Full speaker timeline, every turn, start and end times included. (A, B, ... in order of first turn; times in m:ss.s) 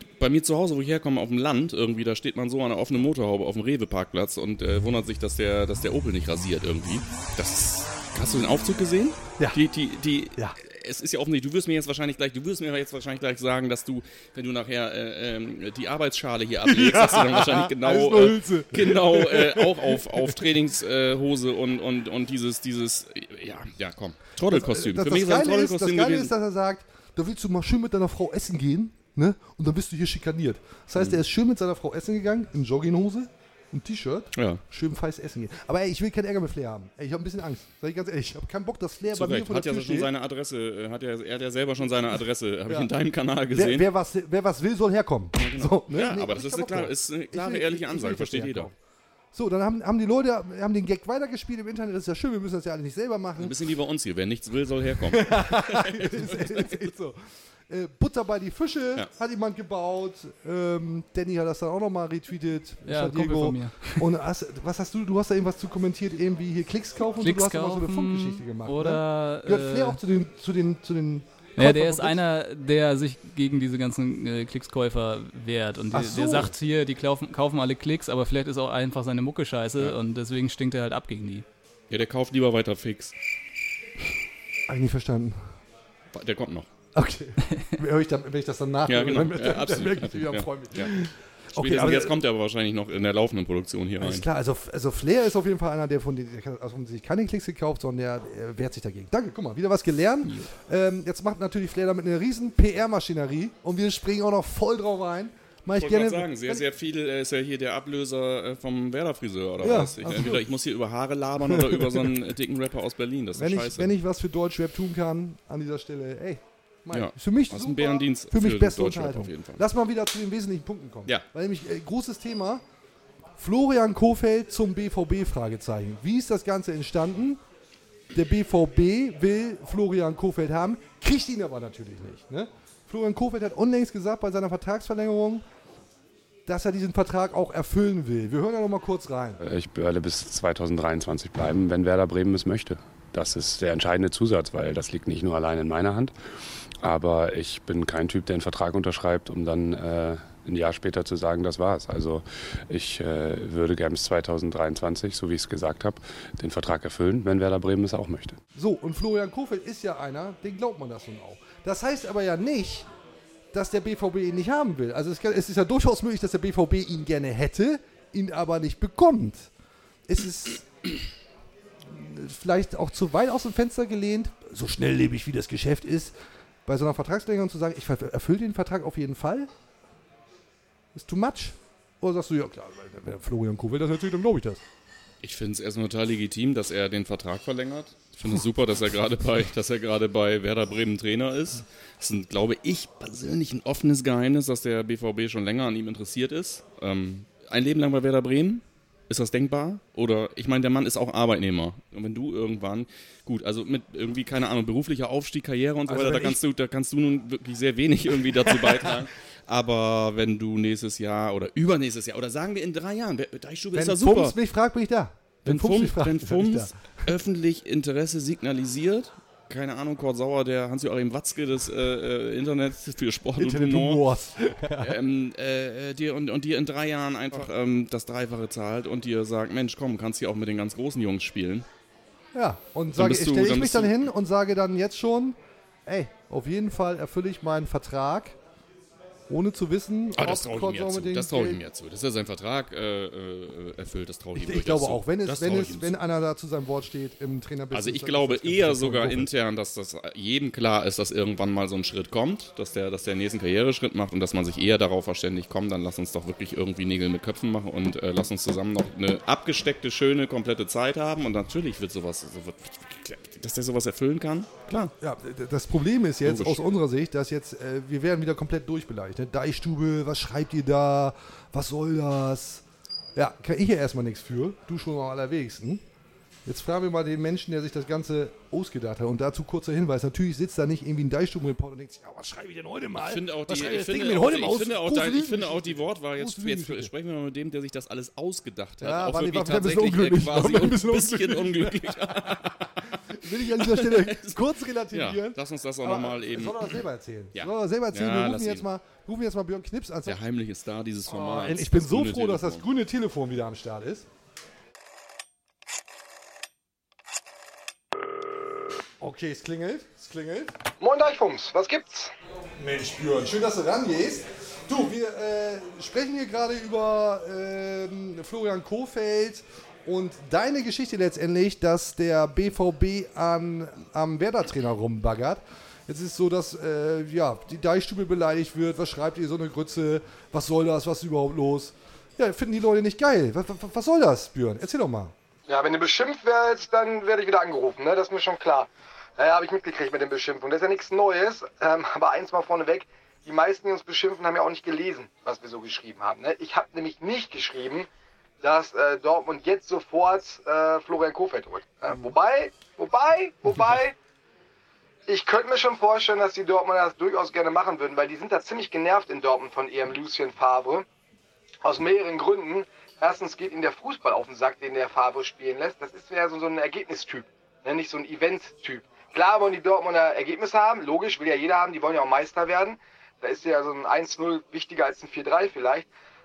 0:00.2-0:26.3 A
0:16.6-0:20.4 B
0:24.5-0:40.1 B
0:34.4-0:34.6 A
0:39.1-0:43.9 A
0:43.5-0:48.7 B
0:45.4-0:48.7 A
0:49.3-0:53.5 B
0:53.4-0:56.9 A
0:55.1-1:12.2 B
1:02.9-1:04.0 C
1:07.2-1:10.0 C
1:11.6-1:21.4 C
1:15.9-1:16.5 B
1:21.9-1:23.1 A
1:24.7-1:25.4 B
1:26.1-1:26.7 A
1:26.9-1:32.2 B
1:28.9-1:31.0 A
1:31.5-1:34.2 A
1:34.0-1:46.6 B
1:45.7-1:53.9 A
1:49.6-1:50.4 B
1:51.4-1:52.1 B
1:53.4-2:02.6 B
1:56.9-1:59.6 A
2:03.4-2:07.4 B
2:08.1-2:15.4 B
2:16.4-2:19.4 B
2:19.4-2:26.1 D
2:26.8-2:38.4 D
2:38.5-2:42.9 B
2:43.5-2:49.5 B
2:50.1-2:50.8 B
2:51.8-2:56.1 B
2:56.6-2:59.5 B
3:00.9-3:04.6 B
3:05.2-3:34.4 A
3:25.9-3:26.4 B
3:28.5-3:28.9 B
3:33.7-3:36.7 B
3:35.4-3:44.0 A
3:43.4-3:45.0 B
3:44.8-3:51.6 A
3:52.3-3:58.4 B
3:53.0-3:54.0 A
3:59.3-4:01.6 B
4:00.2-4:05.9 A
4:04.4-4:09.3 B
4:07.7-4:24.9 A
4:25.0-4:32.6 B
4:26.2-4:26.6 A
4:33.2-4:35.8 B
4:36.4-4:46.9 B
4:43.0-4:56.8 A
4:48.8-4:52.5 B
4:53.1-5:00.2 B
4:57.3-4:58.6 A
5:00.0-5:02.6 A
5:01.1-5:04.1 B
5:09.0-5:10.5 B
5:10.8-5:12.1 E
5:12.6-5:35.1 B
5:35.5-5:47.9 E
5:48.4-5:54.0 E
5:55.1-6:00.8 E
6:01.6-6:15.9 E